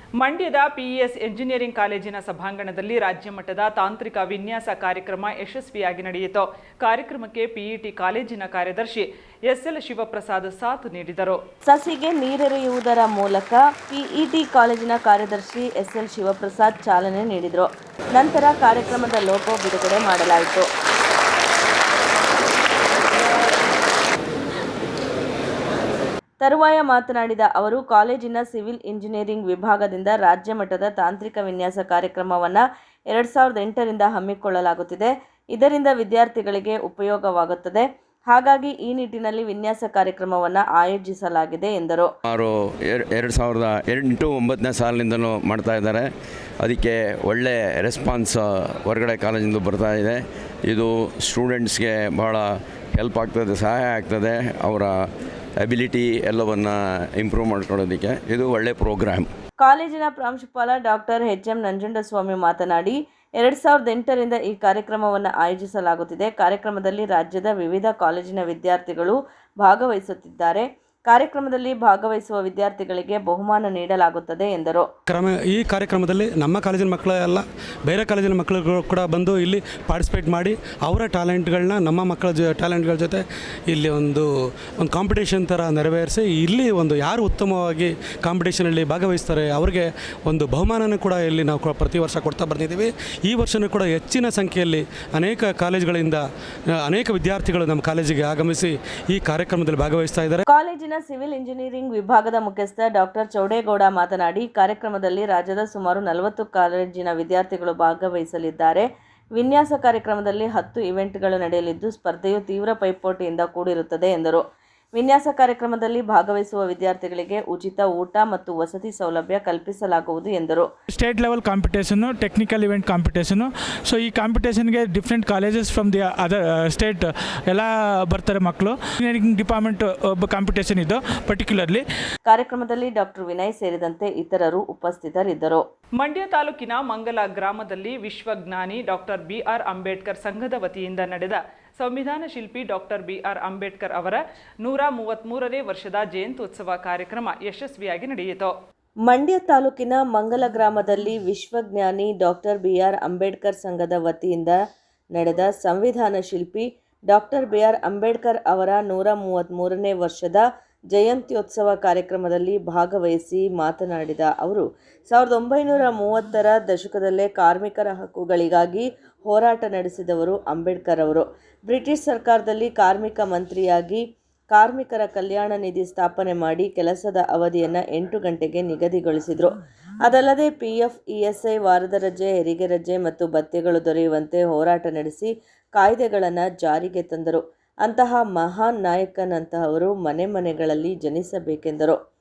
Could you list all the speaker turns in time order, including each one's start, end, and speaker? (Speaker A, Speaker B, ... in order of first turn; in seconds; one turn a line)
Speaker A: 0.2-11.4
Speaker B: 11.7-20.7
Speaker B: 26.4-42.1
Speaker C: 42.3-46.1
Speaker C: 46.6-55.1
Speaker C: 55.6-59.3
Speaker B: 59.6-74.9
Speaker D: 75.1-84.3
Speaker D: 84.8-96.2
Speaker D: 96.8-100.4
Speaker B: 100.5-114.4
Speaker B: 114.9-120.7
Speaker E: 121.0-123.4
Speaker E: 123.9-131.8
Speaker B: 132.3-135.6
Speaker A: 136.0-148.5
Speaker B: 149.1-154.6
Speaker B: 155.1-192.0